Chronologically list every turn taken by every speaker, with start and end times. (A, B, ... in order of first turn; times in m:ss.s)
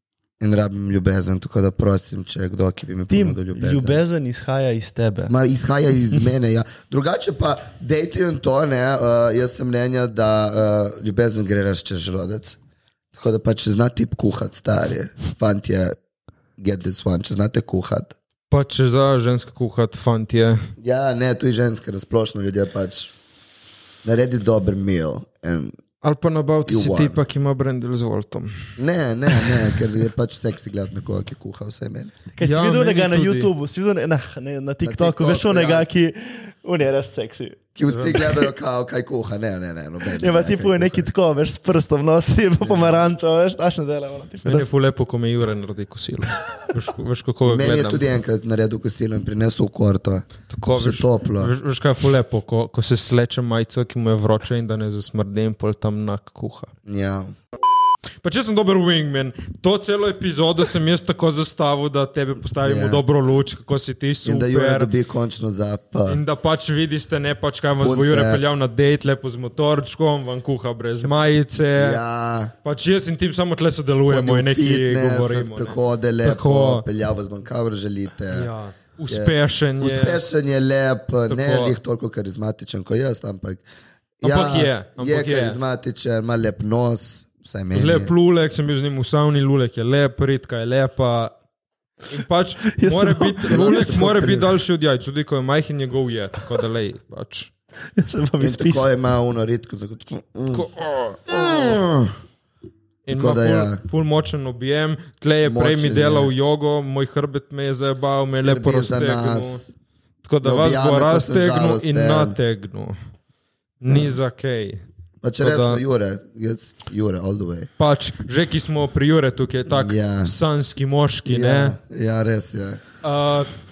0:00.4-0:04.0 A
0:03.1-0:05.3 B
0:05.3-0:12.6 A
0:13.1-0:16.0 A
0:16.6-0:18.2 A
0:18.5-0:20.6 C
0:20.8-0:23.1 A
0:24.0-0:25.8 A
0:26.0-0:28.7 C
0:26.7-0:27.2 A
0:28.8-0:32.1 A
0:32.3-0:37.7 B
0:32.4-0:33.5 C
0:34.8-0:35.9 A
0:37.8-0:41.1 A
0:37.9-0:38.2 C
0:40.2-0:44.7 B
0:42.6-0:43.0 A
0:44.4-0:48.0 C
0:47.5-0:51.5 A
0:50.5-0:56.7 C
0:56.9-0:57.4 A
0:58.2-1:04.9 C
1:02.6-1:03.0 A
1:04.2-1:06.2 A
1:06.1-1:12.0 C
1:07.8-1:08.4 A
1:11.7-1:12.5 A
1:12.6-1:16.8 C
1:14.1-1:18.5 A
1:18.3-1:20.2 C
1:19.1-1:23.6 A
1:21.3-1:21.8 C
1:24.2-1:28.1 A
1:24.2-1:25.6 C
1:27.7-1:31.3 C
1:32.1-1:37.5 C
1:32.7-1:33.7 B
1:33.5-1:34.5 A
1:38.0-1:38.9 B
1:38.4-1:40.7 A
1:40.5-1:41.6 C
1:41.3-1:42.2 A
1:43.1-1:49.6 C
1:43.1-1:43.8 A
1:45.4-1:46.3 A
1:48.3-1:49.7 A
1:50.2-1:53.0 C
1:50.4-1:52.4 A
1:53.8-1:54.8 C
1:53.9-1:54.2 A
1:55.2-1:57.7 A
1:55.4-1:55.8 C
1:57.8-2:01.8 C
1:59.7-2:00.4 A
2:01.3-2:02.8 A
2:03.0-2:03.5 C